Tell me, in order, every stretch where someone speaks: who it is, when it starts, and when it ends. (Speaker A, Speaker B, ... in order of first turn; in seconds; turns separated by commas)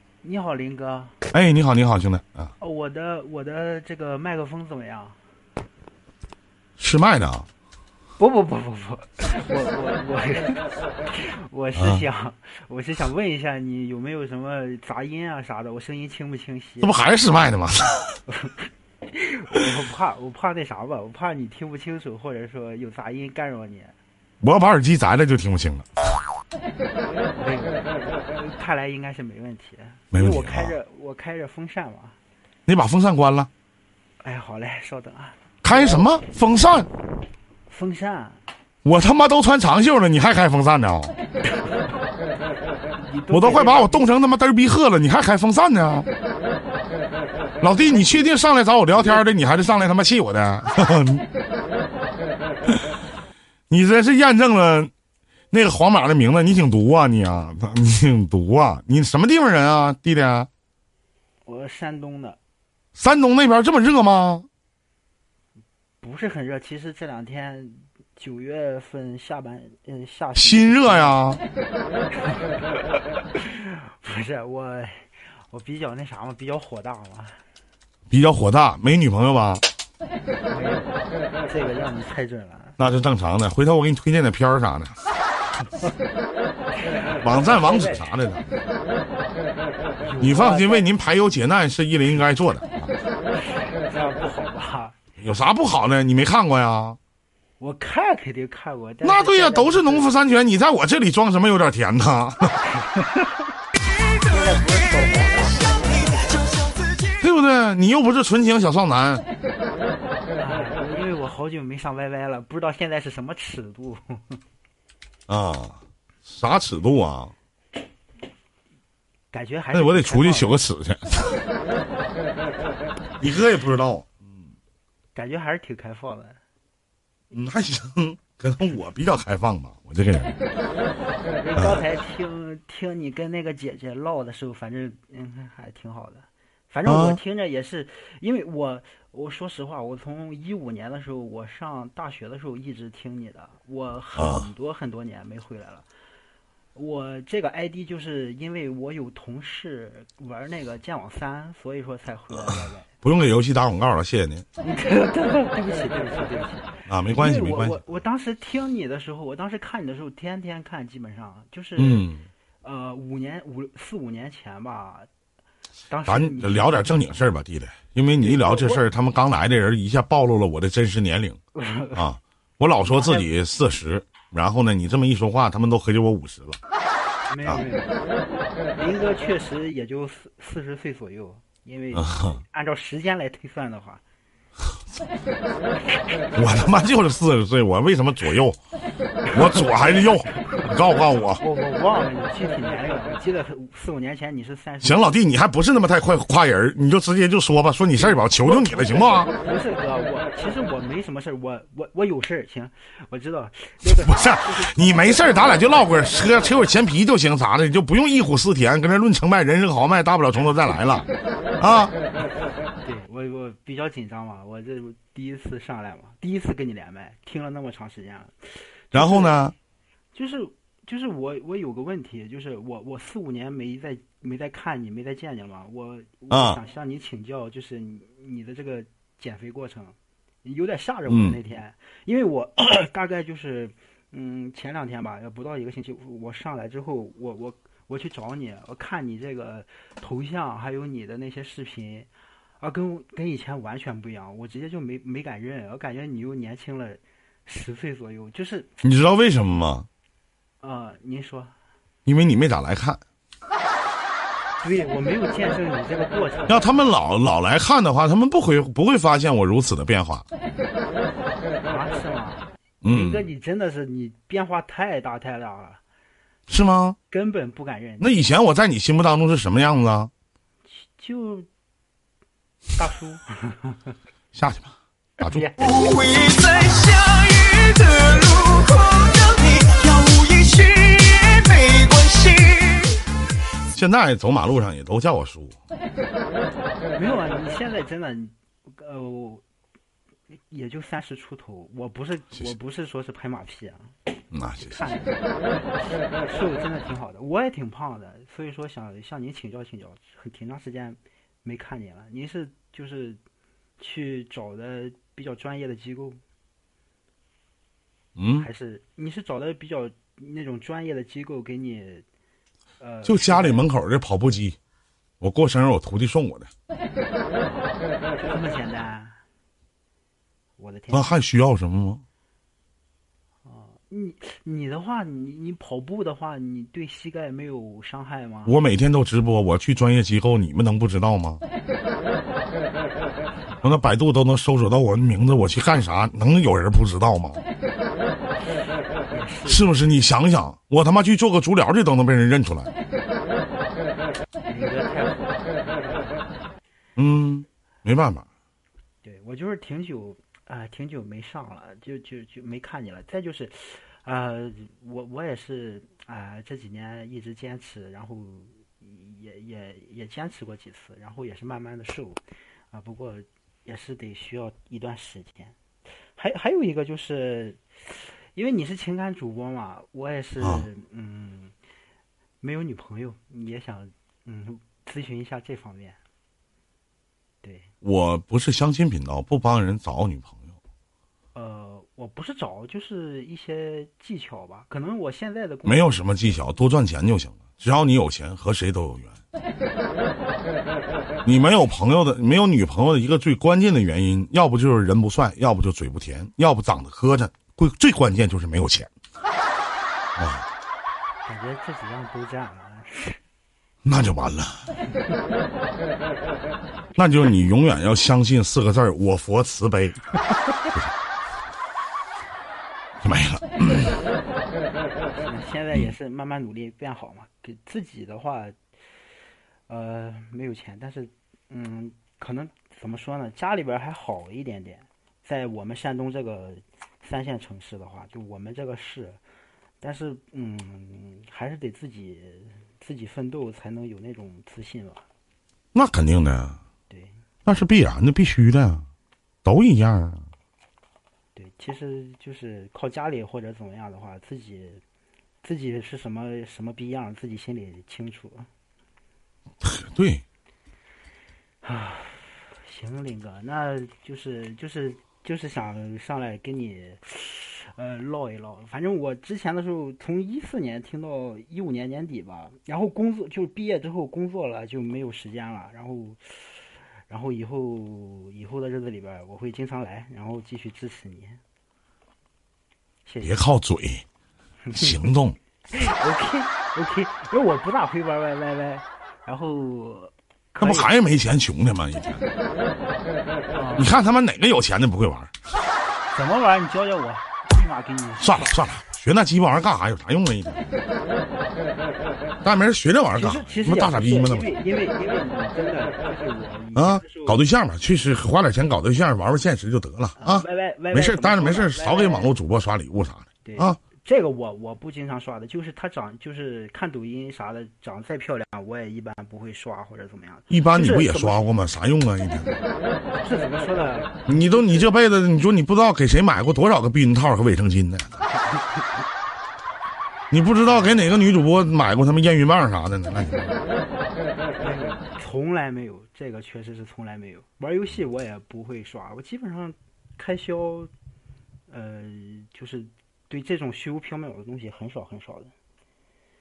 Speaker A: 0.2-1.1, Speaker B: 1.3-2.5, Speaker A: 2.6-5.2, Speaker B: 6.8-7.5, Speaker A: 8.2-17.0, Speaker B: 11.8-12.0, Speaker B: 16.8-18.2, Speaker A: 18.3-23.9, Speaker B: 24.4-25.9, Speaker A: 27.3-32.2, Speaker B: 30.1-30.8, Speaker B: 32.7-33.5, Speaker A: 34.2-36.2, Speaker B: 35.6-36.9, Speaker A: 37.7-38.4, Speaker B: 38.8-41.1, Speaker A: 41.5-42.0, Speaker A: 43.0-44.1, Speaker B: 43.3-46.1, Speaker B: 47.6-51.2, Speaker A: 47.8-48.3, Speaker B: 53.7-54.9, Speaker B: 55.5-60.5, Speaker A: 61.5-62.4, Speaker B: 63.0-64.5, Speaker A: 66.0-71.2, Speaker B: 70.4-71.4, Speaker A: 72.1-77.4, Speaker B: 78.1-79.7, Speaker A: 80.5-82.8, Speaker B: 82.8-85.0, Speaker A: 86.8-88.0, Speaker B: 87.2-88.5, Speaker A: 90.0-90.9, Speaker B: 90.2-92.9, Speaker A: 93.3-95.0, Speaker B: 95.2-97.0, Speaker A: 97.6-100.2, Speaker B: 99.0-102.6, Speaker A: 102.7-103.5, Speaker A: 104.1-106.6, Speaker B: 107.1-109.2, Speaker A: 110.4-114.4, Speaker B: 115.3-117.3, Speaker A: 119.3-120.6, Speaker B: 119.7-121.4, Speaker B: 123.2-124.1, Speaker A: 125.2-126.4, Speaker B: 127.3-130.4, Speaker A: 131.4-145.9, Speaker B: 136.9-137.2, Speaker B: 144.2-144.5, Speaker A: 146.8-152.9, Speaker B: 153.0-154.5, Speaker A: 154.6-162.1, Speaker B: 156.9-157.8, Speaker B: 161.8-162.2, Speaker A: 162.6-165.1, Speaker A: 165.9-167.0, Speaker B: 166.1-171.4, Speaker A: 168.2-168.8, Speaker A: 171.6-172.1, Speaker B: 171.9-176.6, Speaker A: 172.8-173.3, Speaker A: 177.3-178.0, Speaker A: 178.8-184.0, Speaker B: 186.3-188.6, Speaker B: 189.3-191.4, Speaker A: 189.3-190.7, Speaker A: 191.3-195.2, Speaker B: 194.8-199.3, Speaker A: 197.9-205.3, Speaker B: 203.8-211.9, Speaker A: 212.8-219.4, Speaker B: 218.9-219.5, Speaker A: 220.1-242.1, Speaker B: 226.3-226.6, Speaker B: 231.1-231.4, Speaker A: 242.6-248.7, Speaker B: 248.8-249.9, Speaker A: 250.6-251.6, Speaker B: 252.1-253.0, Speaker A: 254.6-256.8, Speaker B: 256.5-260.2, Speaker A: 261.6-265.8, Speaker B: 262.8-263.3, Speaker B: 266.5-267.0, Speaker A: 267.1-268.1, Speaker B: 268.0-270.1, Speaker A: 270.7-271.5, Speaker A: 272.8-273.9, Speaker B: 274.3-275.5, Speaker A: 275.2-275.8, Speaker C: 275.8-282.9, Speaker B: 283.7-285.6, Speaker A: 287.0-289.4, Speaker A: 290.5-294.0, Speaker B: 294.3-294.8, Speaker A: 294.6-303.2, Speaker A: 303.8-306.2, Speaker B: 308.2-308.5, Speaker A: 308.4-312.1, Speaker A: 312.8-313.7, Speaker B: 313.1-314.6, Speaker B: 315.2-316.5, Speaker A: 317.4-319.2, Speaker A: 320.6-321.2, Speaker B: 320.9-322.0, Speaker A: 323.4-328.6, Speaker B: 328.5-331.4, Speaker B: 333.6-337.4, Speaker A: 339.1-339.7, Speaker B: 339.5-342.7, Speaker A: 344.5-346.4, Speaker B: 347.0-348.3, Speaker A: 349.0-365.6, Speaker A: 366.1-371.5, Speaker A: 372.4-376.0, Speaker A: 377.4-377.7, Speaker B: 377.8-380.5, Speaker A: 381.3-386.4, Speaker B: 385.6-389.2, Speaker B: 391.2-398.9, Speaker B: 400.2-400.5, Speaker A: 401.2-403.2, Speaker B: 403.9-404.6, Speaker B: 407.0-410.1, Speaker B: 413.0-414.0, Speaker A: 415.1-418.6, Speaker A: 419.7-429.2, Speaker A: 429.8-435.1, Speaker B: 435.7-436.6, Speaker B: 437.5-438.9, Speaker B: 439.4-440.2, Speaker A: 441.4-444.8, Speaker A: 445.4-448.5, Speaker B: 449.6-450.2, Speaker A: 451.6-471.4, Speaker A: 473.1-473.4, Speaker B: 473.2-474.0, Speaker A: 474.7-475.1, Speaker B: 474.7-475.4, Speaker A: 475.7-480.9, Speaker B: 480.6-482.3, Speaker A: 483.5-483.9, Speaker B: 483.8-485.3, Speaker A: 486.1-488.6, Speaker B: 488.2-490.6, Speaker B: 492.4-494.6, Speaker A: 493.1-497.4, Speaker B: 496.8-503.8, Speaker A: 500.2-502.4, Speaker A: 503.4-511.4, Speaker B: 510.5-512.6, Speaker A: 513.1-514.9, Speaker B: 514.3-518.2, Speaker A: 518.5-519.0, Speaker B: 520.3-523.6, Speaker A: 520.6-521.0, Speaker A: 524.6-530.9, Speaker A: 531.7-535.5